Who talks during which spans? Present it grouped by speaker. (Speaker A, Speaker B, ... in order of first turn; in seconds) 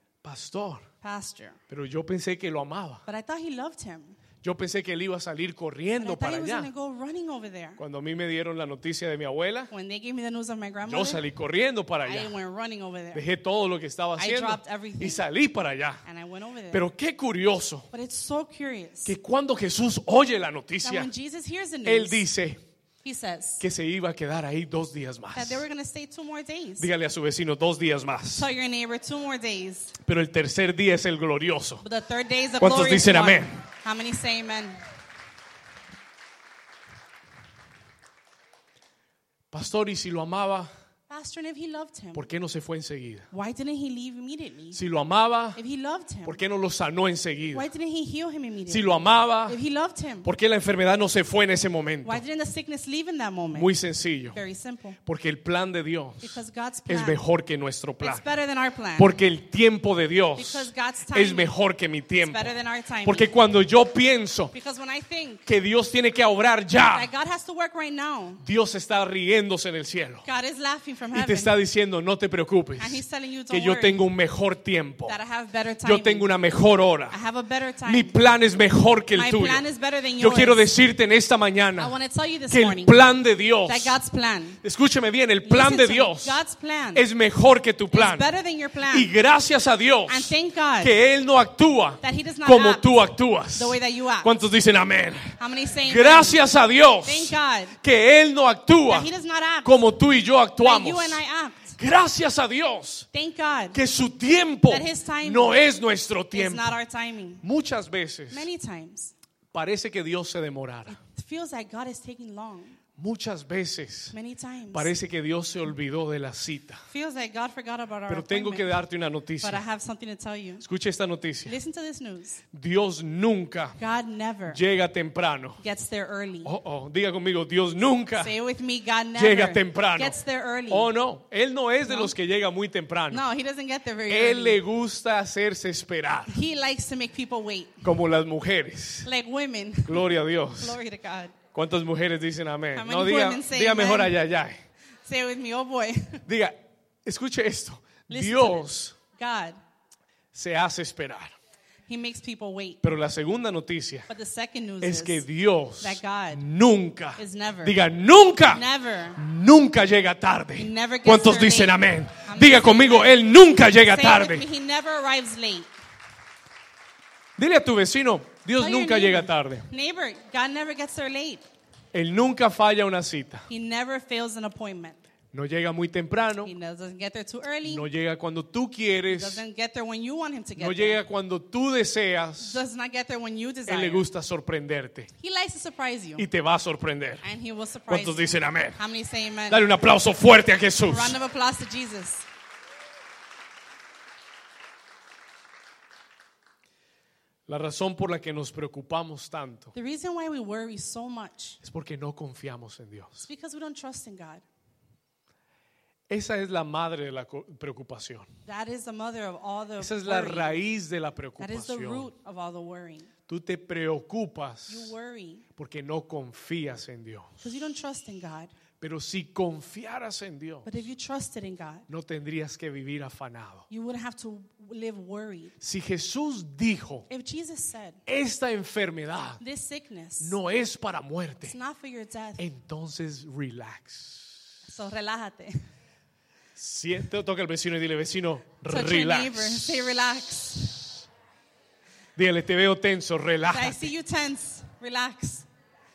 Speaker A: 0.2-0.9, 1.7-3.0, 4.4-6.7, 7.8-9.7, 10.9-12.3, 13.1-16.0, 16.7-17.9, 19.0-21.1, 21.8-22.6, 23.6-25.6, 26.8-28.5, 30.0-31.8, 32.6-33.6, 39.5-40.7, 42.1-43.3, 44.7-45.6, 46.2-47.7, 48.7-49.6, 50.2-52.2, 53.5-54.4, 55.0-58.2, 59.0-62.5, 63.0-64.5, 65.5-67.1, 68.4-70.2, 71.1-75.2, 75.8-77.2, 77.8-79.6, 80.2-81.9, 82.5-83.9, 84.6-86.4, 86.9-88.2, 88.9-99.1, 99.6-101.2, 101.8-103.1, 103.7-106.8, 107.4-108.5, 109.5-111.0, 113.0-114.1, 114.7-116.8, 118.1-119.6, 120.6-121.5, 122.5-123.8, 124.5-125.6, 126.4-128.3, 129.2-130.2, 130.7-133.2, 134.1-136.4, 137.8-139.1, 139.8-140.8, 141.5-144.6, 146.2-149.0, 150.3-151.3, 152.8-154.1, 154.8-164.4, 167.4-169.7, 171.9-173.5, 175.3-176.5, 177.6-179.4, 180.6-182.6, 183.7-185.1, 186.2-187.2, 187.9-188.8, 189.5-191.2, 197.5-199.7, 201.6-203.3, 206.1-208.3, 209.8-212.1, 213.3-214.9, 215.6-217.4, 218.8-220.7, 221.9-223.7, 225.6-227.1, 228.1-229.4, 230.2-231.5, 232.4-234.4, 236.6-239.8, 242.2-243.9
Speaker B: 1.0-1.6, 3.0-4.2, 6.0-7.8, 9.7-11.2, 12.0-13.2, 14.2-15.2, 16.0-16.8, 17.9-19.1, 20.8-22.2, 23.0-23.6, 25.3-26.9, 28.3-29.9, 31.8-34.8, 41.1-42.3, 43.3-44.8, 45.5-46.4, 47.5-50.3, 52.0-53.7, 54.3-55.0, 56.2-57.2, 58.0-59.1, 60.4-61.5, 62.2-63.3, 64.5-65.5, 66.8-68.4, 70.2-71.5, 72.8-74.0, 75.1-76.3, 77.1-78.1, 79.1-80.7, 81.8-83.0, 83.6-84.6, 85.4-87.0, 87.9-89.1, 90.1-90.9, 92.0-92.8, 93.5-94.3, 95.4-96.4, 97.0-97.8, 98.9-99.8, 100.6-101.8, 103.1-103.8, 104.7-105.6, 106.3-107.4, 108.3-109.1, 110.9-112.8, 114.1-114.9, 116.9-118.8, 119.4-120.6, 121.5-122.4, 123.8-124.6, 125.6-126.5, 128.2-130.9, 131.8-132.1, 133.1-134.6, 136.3-137.9, 139.0-141.3, 142.7-144.2, 145.0-146.2, 148.1-149.6, 151.9-152.8, 154.1-155.2, 155.8-156.4, 157.2-157.8, 158.5-159.2, 160.6-165.7, 168.6-171.4, 173.5-175.0, 176.4-177.9, 179.1-181.0, 182.4-184.1, 185.2-186.3, 187.2-189.7, 190.8-192.2, 199.7-201.6, 203.2-204.4, 208.4-210.6, 211.4-213.1, 214.7-215.4, 217.4-218.5, 220.7-221.8, 223.7-225.5, 227.1-228.0, 229.4-230.3, 231.4-232.4, 234.6-235.6, 238.7-241.0, 243.5-245.5